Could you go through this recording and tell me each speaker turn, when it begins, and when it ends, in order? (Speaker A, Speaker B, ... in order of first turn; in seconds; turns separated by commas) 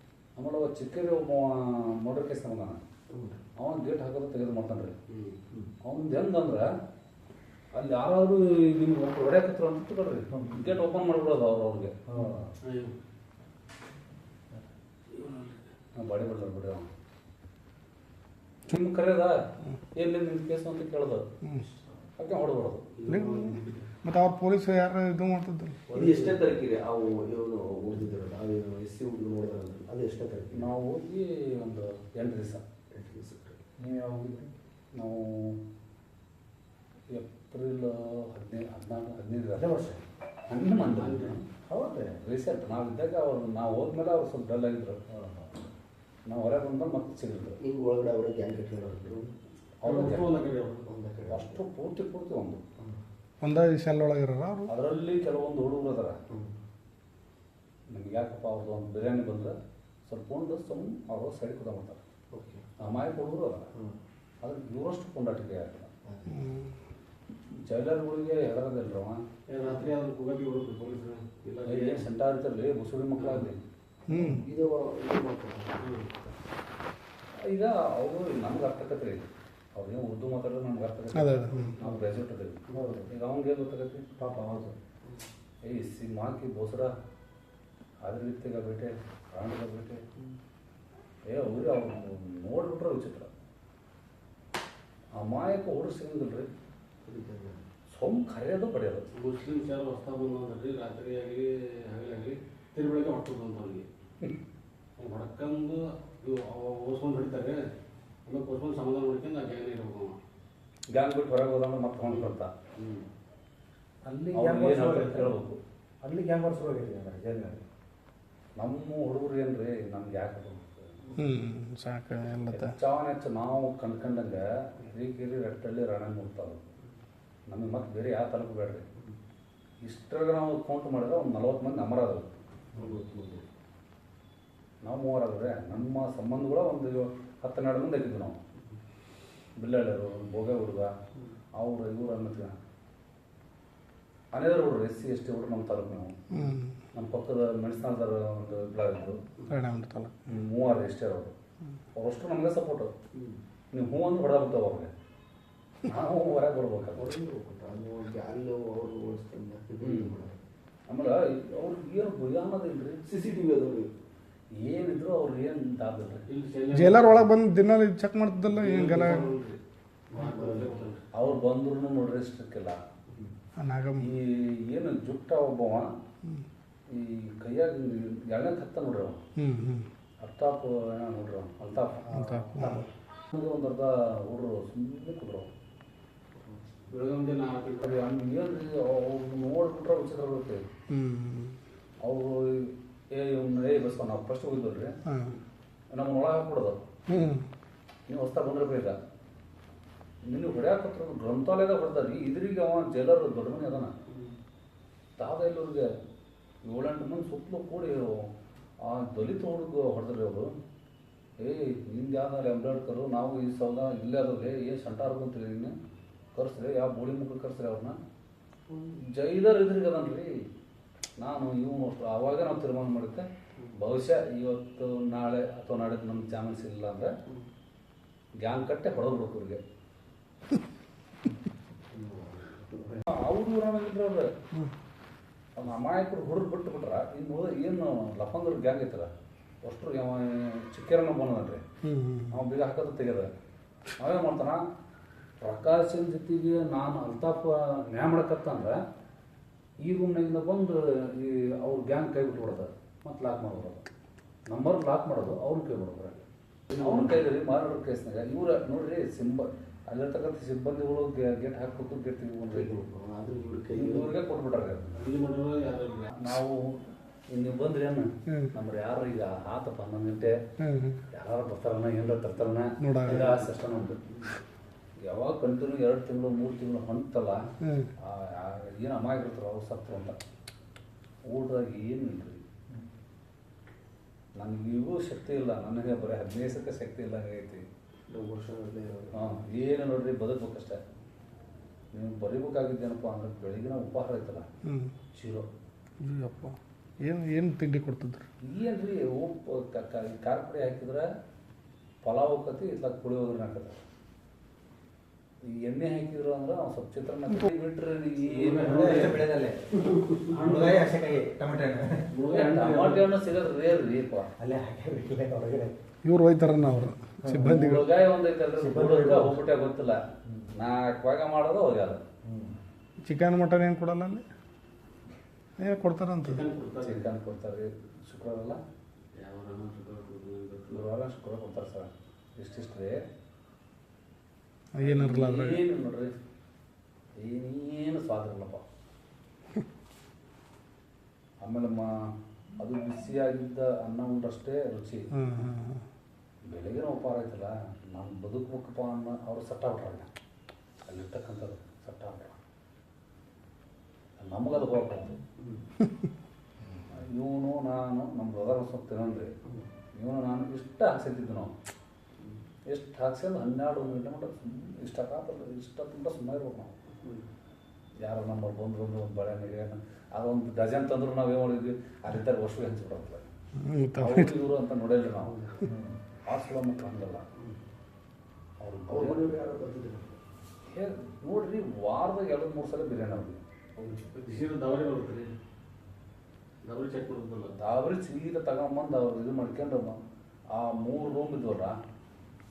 Speaker A: 0.4-2.8, Speaker B: 3.1-3.4, Speaker A: 3.6-5.0, Speaker C: 5.1-5.4, Speaker A: 5.8-6.7, Speaker A: 7.7-11.9, Speaker D: 10.3-10.7, Speaker D: 12.1-12.5, Speaker C: 12.6-12.9, Speaker C: 15.1-15.6, Speaker A: 16.0-16.9, Speaker A: 18.7-19.4, Speaker A: 19.9-21.2, Speaker E: 21.4-21.7, Speaker A: 22.2-22.9, Speaker B: 22.9-23.9, Speaker E: 23.1-25.8, Speaker A: 25.9-26.4, Speaker B: 25.9-30.7, Speaker A: 30.5-32.6, Speaker B: 32.9-33.6, Speaker D: 33.8-34.5, Speaker A: 34.9-35.6, Speaker A: 37.1-39.7, Speaker D: 39.5-40.0, Speaker A: 40.5-41.4, Speaker C: 40.8-41.4, Speaker D: 41.6-42.2, Speaker A: 42.2-45.0, Speaker D: 45.1-45.6, Speaker A: 46.3-47.6, Speaker B: 47.6-49.3, Speaker A: 49.8-50.3, Speaker C: 49.8-50.9, Speaker B: 50.9-51.6, Speaker A: 51.3-52.6, Speaker E: 53.4-54.7, Speaker A: 54.7-56.2, Speaker B: 56.3-56.6, Speaker A: 57.9-59.5, Speaker A: 60.1-62.0, Speaker B: 62.3-62.6, Speaker A: 62.8-63.7, Speaker A: 64.4-65.9, Speaker B: 66.0-66.3, Speaker E: 66.3-66.7, Speaker A: 67.5-69.2, Speaker C: 69.5-72.1, Speaker B: 69.6-69.9, Speaker A: 71.7-73.6, Speaker E: 74.1-74.5, Speaker B: 74.1-75.9, Speaker C: 75.8-76.1, Speaker A: 77.5-84.0, Speaker E: 81.1-81.8, Speaker B: 82.7-83.0, Speaker D: 82.7-83.1, Speaker D: 84.2-84.8, Speaker A: 85.7-86.9, Speaker A: 88.0-90.0, Speaker A: 91.3-93.3, Speaker A: 95.2-96.5, Speaker B: 97.0-97.6, Speaker A: 97.9-99.0, Speaker C: 99.1-103.9, Speaker C: 105.0-107.6, Speaker C: 108.2-110.2, Speaker A: 110.9-112.5, Speaker C: 112.8-113.0, Speaker A: 114.0-115.6, Speaker D: 114.3-115.3, Speaker D: 116.0-117.6, Speaker A: 118.6-120.9, Speaker E: 121.2-122.8, Speaker A: 122.5-126.6, Speaker A: 127.5-128.8, Speaker A: 129.8-132.3, Speaker B: 132.7-133.4, Speaker A: 134.8-138.4, Speaker A: 139.6-140.9, Speaker A: 141.6-142.6, Speaker A: 144.3-146.2, Speaker E: 146.3-146.8, Speaker A: 146.9-149.2, Speaker E: 149.5-150.2, Speaker A: 150.3-151.3, Speaker A: 152.0-152.9, Speaker B: 153.2-153.4, Speaker A: 153.7-154.9, Speaker A: 155.8-157.2, Speaker B: 156.9-160.4, Speaker A: 159.8-160.1, Speaker A: 160.9-163.0, Speaker B: 163.0-163.9, Speaker A: 164.6-166.2, Speaker C: 166.3-167.3, Speaker E: 166.7-169.3, Speaker C: 168.5-169.6, Speaker B: 170.1-171.0, Speaker C: 170.1-171.0, Speaker A: 171.1-172.8, Speaker B: 173.1-173.3, Speaker E: 173.6-174.1, Speaker A: 174.0-175.9, Speaker A: 176.9-179.2, Speaker E: 179.3-179.9, Speaker A: 180.2-182.1, Speaker B: 182.0-182.9, Speaker E: 182.1-182.8, Speaker A: 183.3-185.5, Speaker B: 186.3-186.9, Speaker C: 186.9-187.9, Speaker A: 187.8-190.6, Speaker E: 190.9-191.6, Speaker A: 192.0-194.9, Speaker E: 195.1-195.4, Speaker A: 195.9-196.8, Speaker E: 197.1-197.5, Speaker A: 198.1-199.0, Speaker A: 200.2-203.9, Speaker B: 204.1-204.4, Speaker A: 205.2-205.9, Speaker A: 206.6-208.3, Speaker A: 208.8-210.5, Speaker A: 211.4-215.7, Speaker A: 216.3-218.0, Speaker B: 218.7-219.0, Speaker A: 219.1-220.3, Speaker A: 221.2-227.1, Speaker A: 228.4-229.6, Speaker B: 231.9-233.1, Speaker A: 233.1-234.3, Speaker A: 235.6-239.1, Speaker A: 239.6-241.6, Speaker E: 241.8-242.4, Speaker A: 242.3-243.3, Speaker A: 244.0-244.6, Speaker A: 245.4-248.8, Speaker A: 249.8-253.8, Speaker A: 254.5-256.2, Speaker B: 256.7-257.2, Speaker A: 256.8-262.8, Speaker B: 262.5-264.1, Speaker A: 263.7-265.0, Speaker C: 265.0-266.1, Speaker A: 266.1-270.3, Speaker E: 270.6-271.0, Speaker A: 271.1-274.0, Speaker E: 272.8-273.3, Speaker B: 273.1-273.5, Speaker B: 274.1-274.4, Speaker A: 275.0-277.4, Speaker E: 277.6-277.9, Speaker A: 278.0-280.2, Speaker A: 281.3-282.4, Speaker A: 284.4-287.6, Speaker B: 288.1-289.3, Speaker A: 289.1-290.8, Speaker A: 291.9-294.4, Speaker E: 294.6-294.9, Speaker A: 295.1-295.5, Speaker E: 296.0-298.3, Speaker A: 298.4-301.1, Speaker A: 302.0-303.8, Speaker A: 305.5-309.2, Speaker C: 308.2-309.2, Speaker D: 308.6-309.8, Speaker C: 309.8-310.9, Speaker D: 310.3-312.1, Speaker C: 312.1-313.1, Speaker A: 312.3-314.3, Speaker D: 314.4-315.7, Speaker E: 316.0-317.9, Speaker D: 317.2-317.8, Speaker A: 317.4-320.0, Speaker D: 318.6-319.4, Speaker D: 320.2-320.5, Speaker A: 320.5-322.0, Speaker D: 322.2-322.6, Speaker E: 323.0-324.2, Speaker E: 325.6-326.4, Speaker C: 326.2-327.1, Speaker A: 326.8-328.6, Speaker C: 329.2-330.9, Speaker A: 330.7-333.0, Speaker E: 334.8-335.6, Speaker A: 334.8-336.1, Speaker A: 337.2-338.6, Speaker A: 341.4-341.9, Speaker A: 342.6-345.0, Speaker E: 345.1-345.8, Speaker A: 346.4-350.1, Speaker A: 350.9-352.4, Speaker A: 354.2-355.2, Speaker B: 355.4-355.6, Speaker A: 356.9-359.3, Speaker A: 360.0-361.5, Speaker A: 362.7-366.7, Speaker B: 367.0-367.2, Speaker A: 368.0-373.2, Speaker E: 373.6-374.3, Speaker A: 374.0-375.4, Speaker B: 375.2-375.6, Speaker D: 375.6-376.0, Speaker A: 376.2-377.2, Speaker A: 378.6-379.3, Speaker B: 378.9-380.2, Speaker A: 380.7-383.4, Speaker B: 383.8-384.4, Speaker C: 384.1-385.3, Speaker C: 386.6-387.5, Speaker A: 387.6-390.0, Speaker A: 390.5-391.8